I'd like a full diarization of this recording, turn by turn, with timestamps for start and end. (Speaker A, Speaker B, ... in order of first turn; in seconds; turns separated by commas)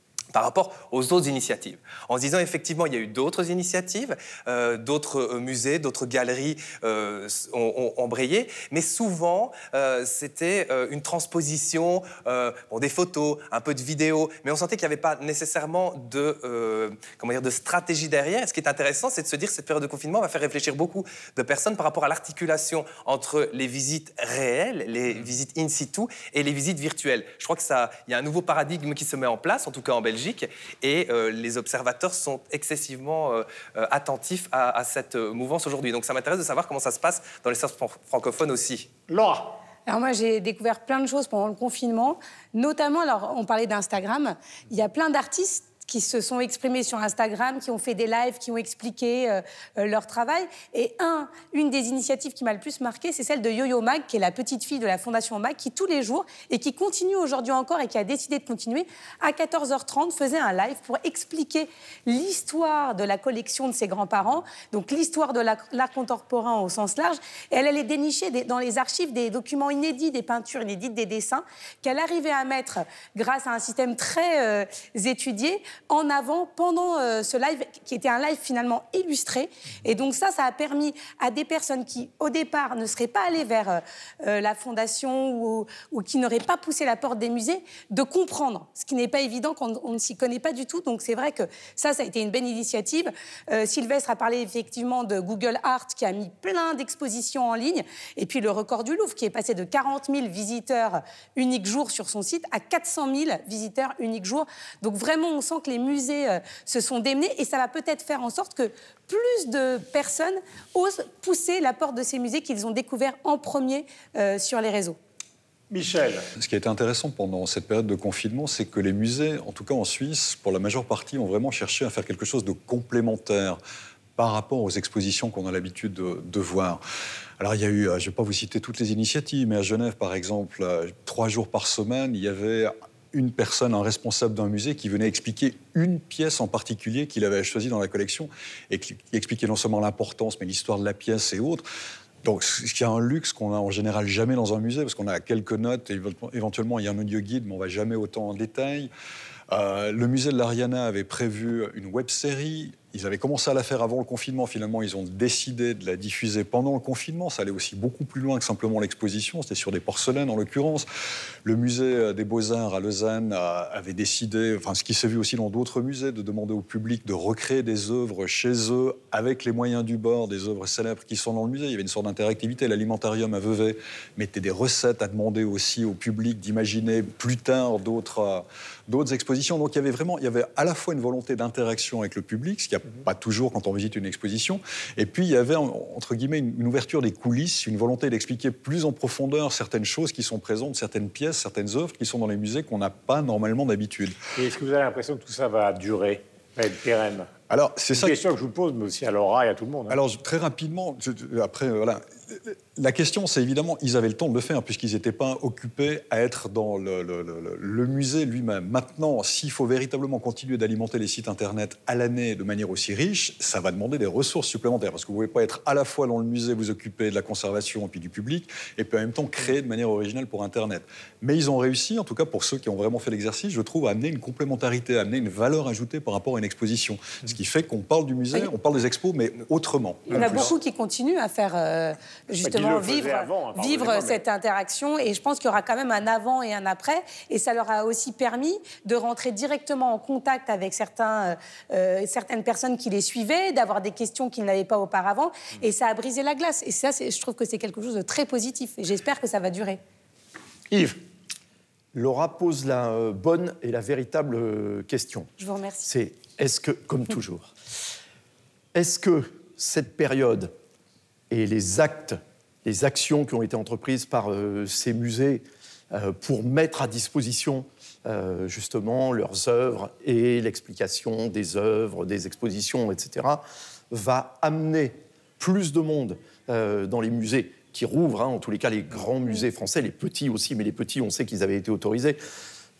Speaker A: 0.3-38.9, Speaker B: 39.1-39.6, Speaker C: 39.9-115.0, Speaker B: 115.7-116.3, Speaker D: 116.3-123.6, Speaker D: 124.2-126.8, Speaker D: 127.4-141.6, Speaker D: 142.2-148.9, Speaker D: 149.5-160.9, Speaker D: 161.4-194.2, Speaker B: 194.3-197.3, Speaker D: 197.5-198.2, Speaker B: 197.9-200.0, Speaker D: 199.9-230.5, Speaker C: 230.1-249.8, Speaker B: 232.4-234.2, Speaker B: 250.7-251.0, Speaker E: 251.9-255.3, Speaker C: 255.4-255.9, Speaker E: 255.8-257.5, Speaker E: 258.7-260.5, Speaker E: 261.3-282.2